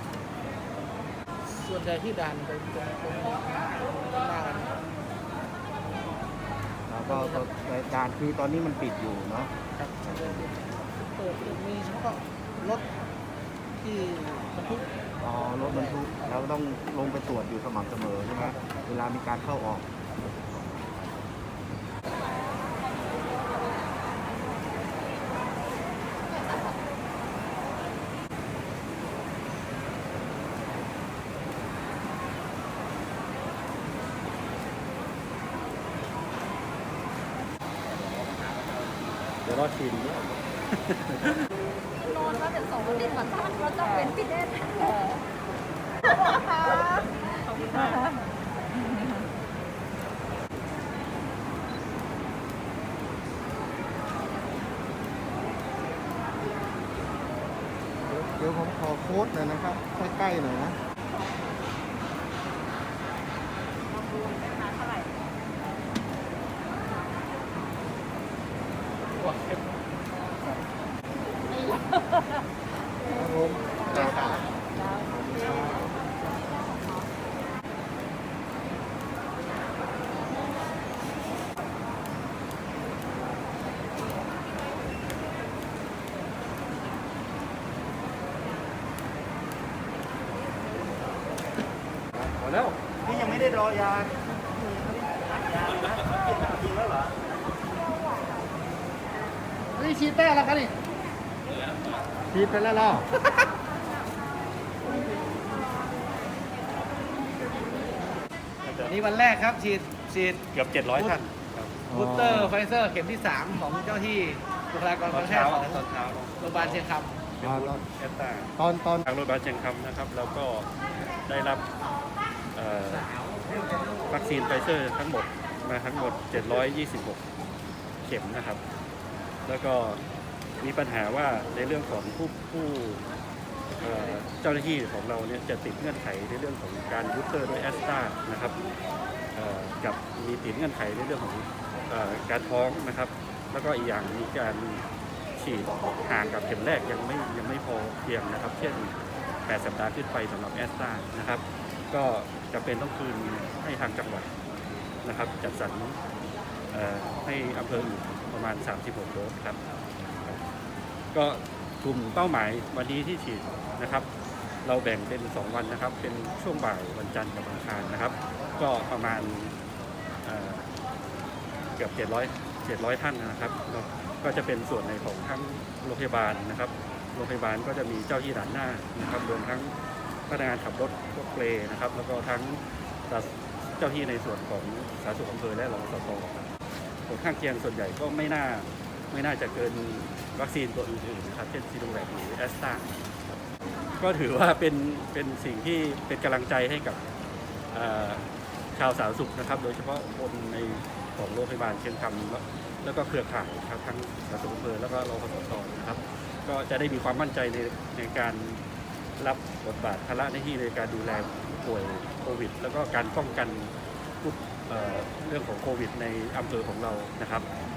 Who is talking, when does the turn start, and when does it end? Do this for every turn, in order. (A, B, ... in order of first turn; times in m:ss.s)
0:01.4-0:04.8 A
0:06.9-0:10.5 B
0:07.1-0:07.5 A
0:09.8-0:12.9 A
0:13.8-0:14.9 A
0:15.2-0:19.9 B
0:15.6-0:16.0 A
0:39.4-0:41.4 C
0:42.0-0:45.1 D
0:46.6-0:47.0 D
0:47.5-0:48.1 D
0:58.1-1:00.8 B
1:09.2-1:09.5 A
1:13.1-1:14.4 B
1:13.9-1:14.3 A
1:15.1-1:15.9 B
1:32.3-1:32.8 C
1:39.8-1:40.7 A
1:42.3-1:43.0 B
1:48.6-1:49.0 C
1:48.9-1:50.4 A
1:50.5-1:51.8 C
1:51.0-1:51.2 A
1:51.9-1:52.5 B
1:51.9-1:55.8 A
1:55.1-1:56.9 C
1:56.4-1:57.2 A
1:57.4-2:01.6 C
1:57.4-1:57.8 B
1:58.6-1:59.0 B
2:02.6-2:03.1 C
2:04.1-2:07.2 C
2:08.0-2:08.6 C
2:09.5-2:10.0 C
2:10.6-2:13.0 C
2:13.8-2:18.6 C
2:19.4-2:24.8 C
2:25.4-2:34.3 C
2:35.0-2:36.0 C
2:36.7-2:39.6 C
2:41.1-2:44.1 C
2:44.6-2:49.5 C
2:50.2-2:50.6 C
2:51.8-2:59.7 C
3:00.3-3:06.5 C
3:07.1-3:13.4 C
3:14.0-3:17.0 C
3:17.7-3:28.6 C
3:29.2-3:37.5 C